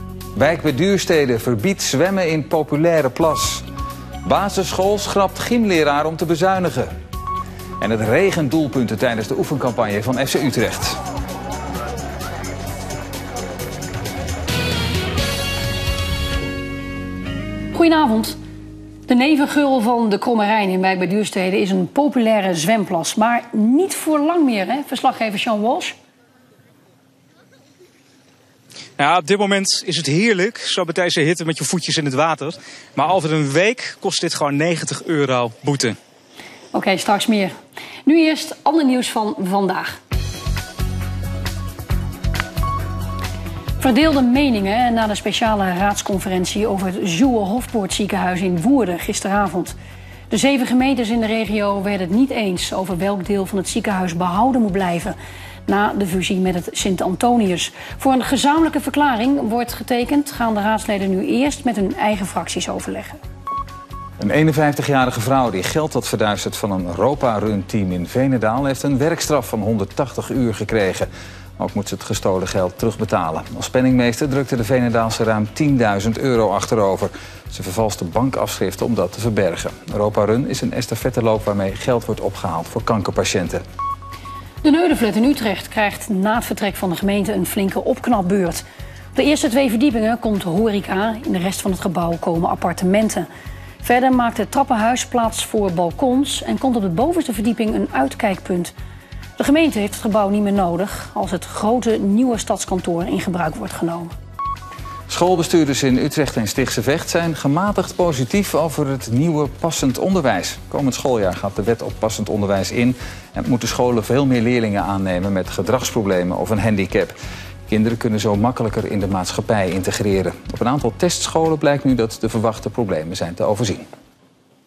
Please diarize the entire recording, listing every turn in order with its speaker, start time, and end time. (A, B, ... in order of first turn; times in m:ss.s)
0:00.4-0:03.6 A
0:04.2-0:06.9 A
0:07.8-0:11.0 A
0:17.7-0:18.4 B
0:19.1-0:25.9 B
0:29.0-0:35.9 C
0:36.7-0:37.5 B
0:38.0-0:40.0 B
0:43.8-0:49.8 B
0:50.3-0:55.2 B
0:55.7-1:03.2 B
1:04.2-1:23.6 A
1:24.6-1:28.6 B
1:29.1-1:33.3 B
1:33.8-1:38.7 B
1:39.4-1:44.1 B
1:45.1-1:57.1 A
1:57.7-2:03.9 A